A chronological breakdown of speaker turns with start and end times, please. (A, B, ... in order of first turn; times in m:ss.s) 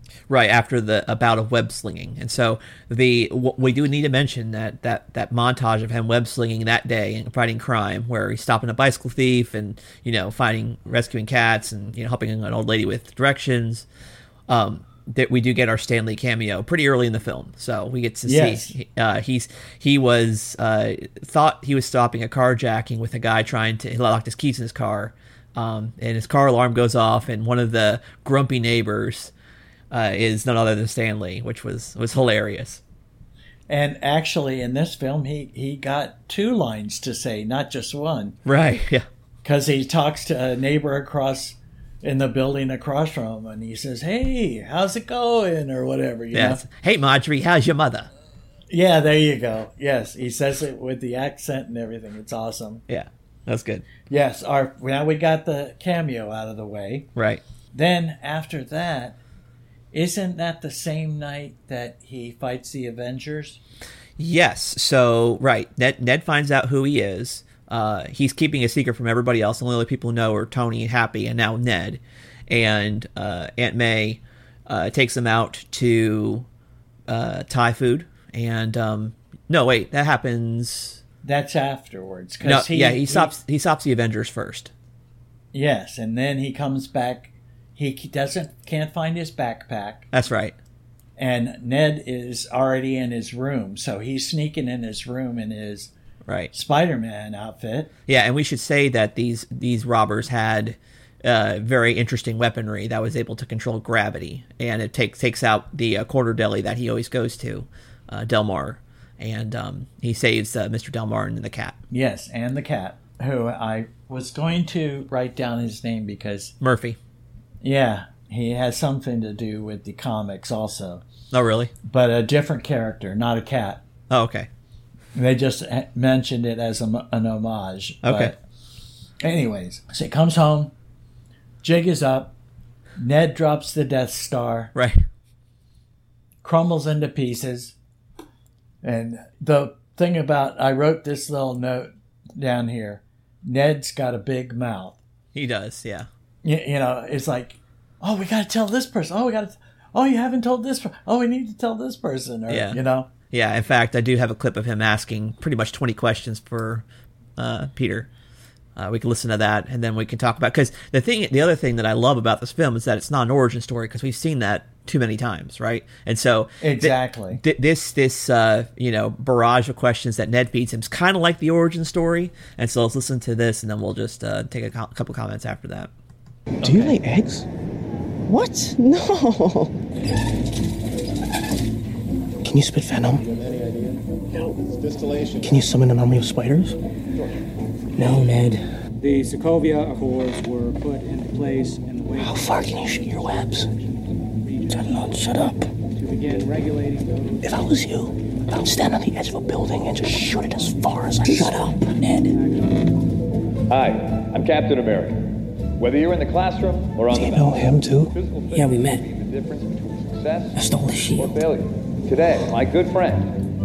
0:00.3-0:13.9 A
0:14.5-0:29.3 A
0:18.2-0:18.8 B
0:29.9-0:32.8 A
0:33.7-0:38.4 B
0:38.4-0:39.0 A
0:39.4-0:46.6 B
0:46.3-0:48.1 A
0:48.7-0:52.8 B
0:52.9-0:53.9 A
0:54.1-0:57.1 B
0:57.2-0:57.4 A
0:57.7-0:59.2 B
0:59.9-1:03.6 B
1:04.2-1:16.5 A
1:17.1-1:21.0 A
1:21.2-1:23.3 B
1:22.4-1:24.7 A
1:25.5-1:30.1 B
1:30.1-1:30.6 A
1:31.2-1:35.9 B
1:36.3-1:36.5 A
1:36.5-1:37.9 B
1:38.1-1:51.8 A
1:51.9-1:56.5 B
1:56.6-1:57.0 A
1:57.6-2:01.0 B
2:01.3-2:01.7 A
2:01.8-2:03.8 B
2:04.1-2:04.5 A
2:05.2-2:08.4 B
2:08.0-2:08.4 A
2:09.2-2:10.7 B
2:11.6-2:12.4 B
2:13.0-2:14.7 B
2:14.8-2:15.0 A
2:16.4-2:17.8 B
2:18.8-2:25.0 B
2:25.3-2:26.1 A
2:26.4-2:33.1 B
2:32.5-2:32.8 A
2:33.3-2:36.9 A
2:37.4-2:38.1 A
2:38.8-2:55.9 A
2:46.6-2:47.4 B
2:56.6-2:57.5 C
2:58.3-2:59.7 D
3:02.4-3:03.4 C
3:05.3-3:06.8 C
3:08.0-3:08.6 C
3:08.2-3:08.6 D
3:09.0-3:15.1 E
3:12.2-3:13.7 C
3:14.7-3:15.7 C
3:16.0-3:17.6 E
3:17.4-3:22.3 C
3:21.2-3:22.0 D
3:22.3-3:23.0 E
3:23.7-3:30.6 F
3:27.1-3:28.1 C
3:28.5-3:29.0 D
3:30.6-3:31.2 C
3:30.6-3:31.3 D
3:31.1-3:33.4 F